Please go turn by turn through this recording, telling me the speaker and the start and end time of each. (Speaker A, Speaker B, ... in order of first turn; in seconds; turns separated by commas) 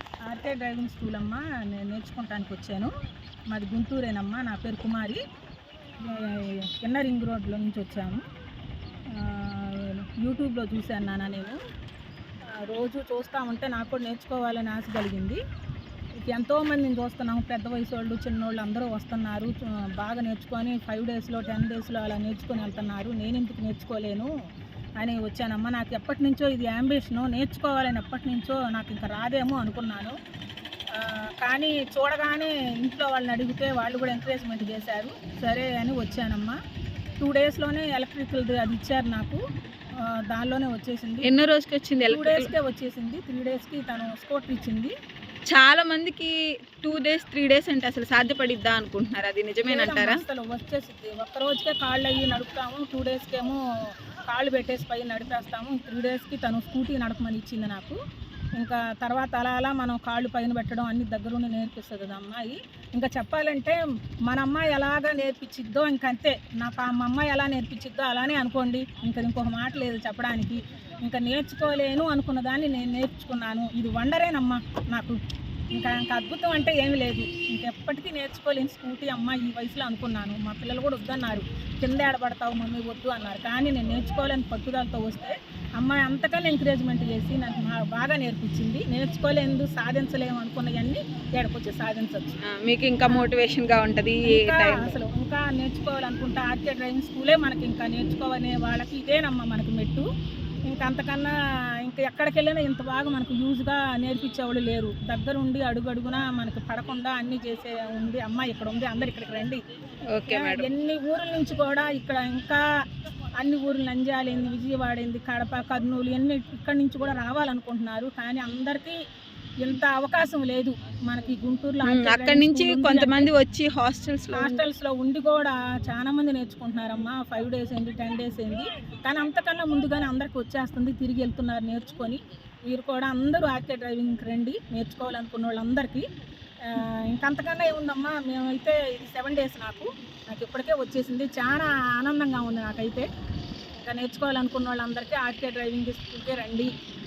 Speaker A: 0.3-2.9, Speaker A: 3.5-5.2, Speaker A: 6.0-8.2, Speaker A: 9.1-11.6, Speaker A: 12.7-15.4, Speaker A: 16.2-24.3, Speaker A: 25.0-30.1, Speaker A: 31.0-36.6, Speaker A: 37.2-39.4, Speaker A: 40.3-41.3, Speaker B: 41.2-42.5, Speaker A: 42.0-44.9, Speaker B: 45.5-50.2, Speaker A: 49.7-58.0, Speaker A: 58.6-75.2, Speaker A: 75.7-92.4, Speaker B: 92.5-95.0, Speaker A: 94.2-100.0, Speaker A: 100.7-101.3, Speaker A: 101.8-109.6, Speaker B: 110.1-110.7, Speaker A: 110.3-112.6, Speaker A: 113.4-119.0, Speaker A: 119.6-123.3, Speaker B: 121.8-124.6, Speaker A: 124.3-132.2, Speaker A: 132.7-136.0, Speaker A: 136.7-143.1, Speaker A: 143.8-146.7